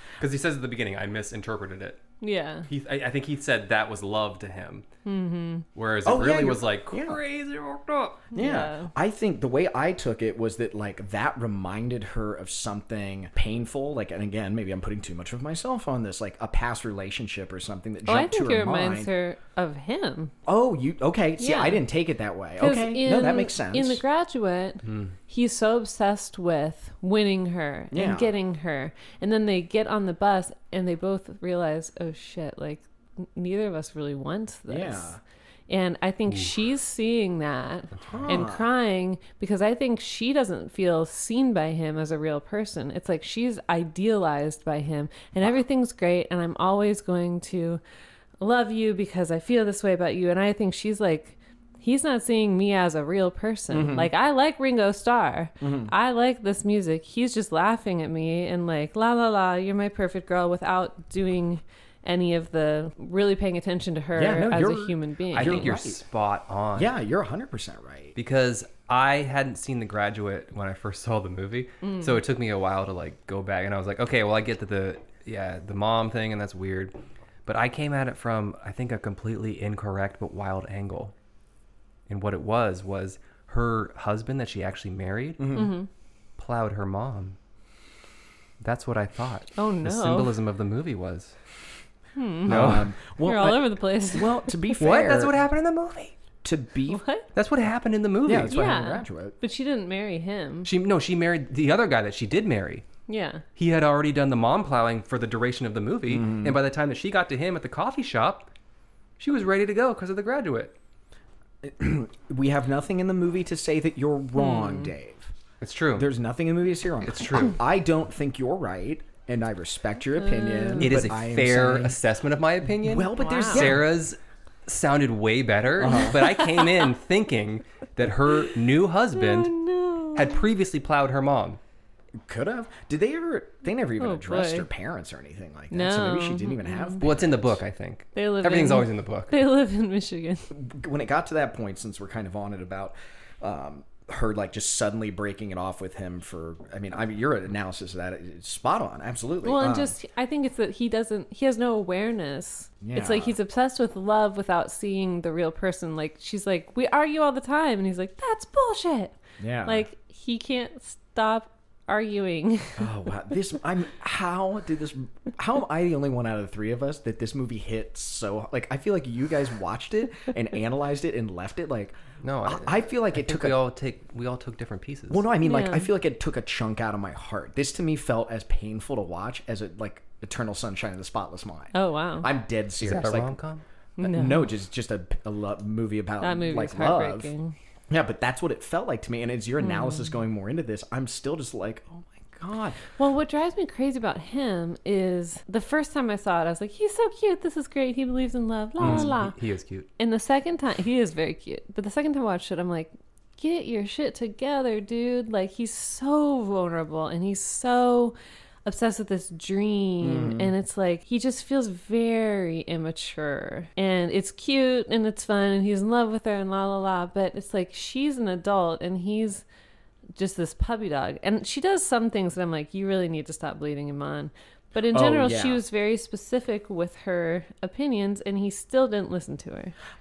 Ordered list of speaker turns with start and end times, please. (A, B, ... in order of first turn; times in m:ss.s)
0:00.2-0:02.0 A
0:02.2-0:02.7 B
0:02.7-0:04.8 A
0:05.0-0:05.6 B
0:05.7-0:08.3 A
0:06.0-0:07.2 C
0:08.3-0:08.9 B
0:08.3-0:19.1 C
0:18.0-0:20.3 B
0:20.4-0:24.0 C
0:21.4-0:21.8 B
0:22.6-0:35.1 B
0:24.8-0:25.1 A
0:27.9-0:28.3 C
0:34.7-0:35.2 C
0:35.7-0:47.8 B
0:37.9-0:38.4 A
0:38.1-0:38.7 C
0:48.4-1:05.7 B
0:53.7-0:54.1 C
0:55.6-0:55.9 C
1:04.1-1:06.0 C
1:05.3-1:06.9 A
1:06.7-1:08.2 C
1:08.2-1:16.9 A
1:11.8-1:12.2 B
1:17.4-1:21.1 A
1:22.1-1:25.7 A
1:25.4-1:25.7 C
1:25.5-1:25.9 B
1:26.4-1:27.4 A
1:28.6-1:31.3 A
1:29.6-1:30.3 B
1:32.2-1:34.7 B
1:32.4-1:35.4 C
1:32.5-1:32.9 A
1:34.8-1:36.1 A
1:36.4-1:37.0 C
1:36.9-1:37.3 B
1:37.3-1:38.5 A
1:38.2-1:39.4 C
1:38.5-1:40.7 B
1:40.6-1:42.8 A
1:43.1-1:43.4 B
1:43.6-1:48.5 A
1:46.1-1:46.6 C
1:49.2-1:50.7 A
1:51.6-1:55.3 C
1:54.4-1:54.9 B
1:55.6-1:56.1 A
1:55.9-2:02.0 C
1:57.0-1:57.6 A
2:00.2-2:01.0 B
2:00.8-2:09.5 A
2:02.8-2:03.9 C
2:03.2-2:03.7 B
2:05.8-2:06.2 C
2:06.1-2:06.9 B
2:09.1-2:10.4 B
2:10.1-2:11.6 A
2:12.2-2:17.6 C
2:14.0-2:14.7 B
2:15.7-2:17.0 B
2:17.0-2:19.3 A
2:18.1-2:20.5 B
2:20.5-2:29.9 C
2:29.4-2:42.8 B
2:32.8-2:33.4 C
2:39.4-2:39.9 C
2:42.8-2:53.6 C
2:52.2-2:55.2 A
2:55.1-3:03.3 C
2:55.4-2:55.9 B
3:01.7-3:02.3 B
3:02.8-3:03.6 A
3:04.0-3:04.5 B
3:04.0-3:07.3 C
3:06.2-3:07.5 B
3:07.9-3:12.8 C
3:09.6-3:10.1 B
3:13.0-3:19.4 B
3:18.8-3:19.9 A
3:18.8-3:19.1 C
3:20.0-3:39.4 B
3:30.0-3:30.5 C
3:40.2-3:49.7 B
3:44.9-3:45.6 C